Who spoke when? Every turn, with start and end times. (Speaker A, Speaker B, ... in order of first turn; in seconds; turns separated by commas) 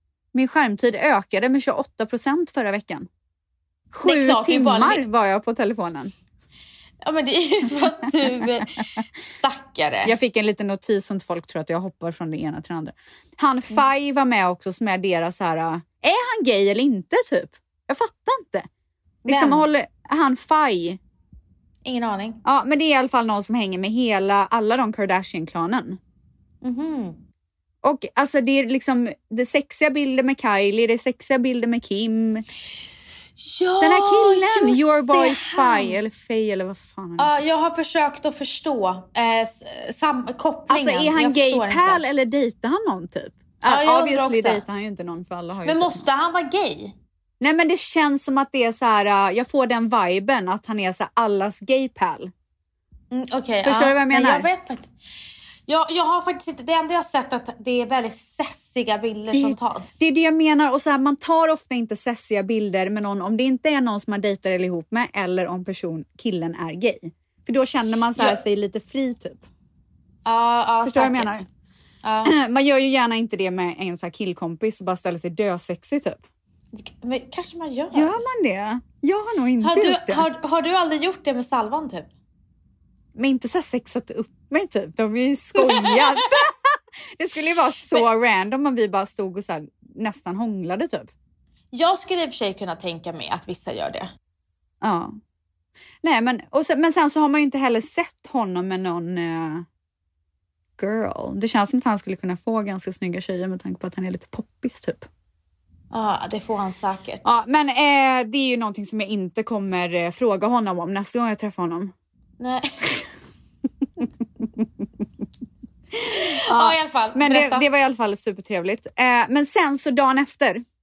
Speaker A: 0.3-3.1, Speaker A: 3.9-6.1, Speaker B: 4.0-5.0, Speaker B: 7.0-10.1, Speaker A: 10.0-18.7, Speaker A: 19.2-21.0, Speaker B: 19.3-19.7, Speaker B: 21.9-22.4, Speaker A: 22.4-26.0, Speaker B: 26.6-27.2, Speaker A: 27.8-32.4, Speaker B: 33.4-36.0, Speaker A: 33.8-37.3, Speaker B: 37.2-42.0, Speaker A: 40.7-46.0, Speaker B: 43.6-44.6, Speaker B: 45.6-46.9, Speaker A: 47.4-52.3, Speaker B: 53.1-54.9, Speaker A: 53.6-54.5, Speaker B: 55.7-60.0, Speaker A: 59.3-69.4, Speaker B: 70.2-71.4, Speaker A: 70.8-71.5, Speaker B: 72.0-72.3, Speaker A: 72.2-76.2, Speaker B: 76.7-78.2, Speaker A: 77.9-80.3, Speaker B: 79.6-82.1, Speaker A: 83.2-91.1, Speaker B: 85.5-86.4, Speaker B: 91.7-94.1, Speaker A: 94.8-95.2, Speaker A: 96.0-99.7, Speaker A: 100.8-105.1, Speaker B: 105.9-107.2, Speaker A: 107.2-111.9, Speaker B: 112.4-113.0, Speaker A: 115.9-120.6, Speaker B: 116.1-117.7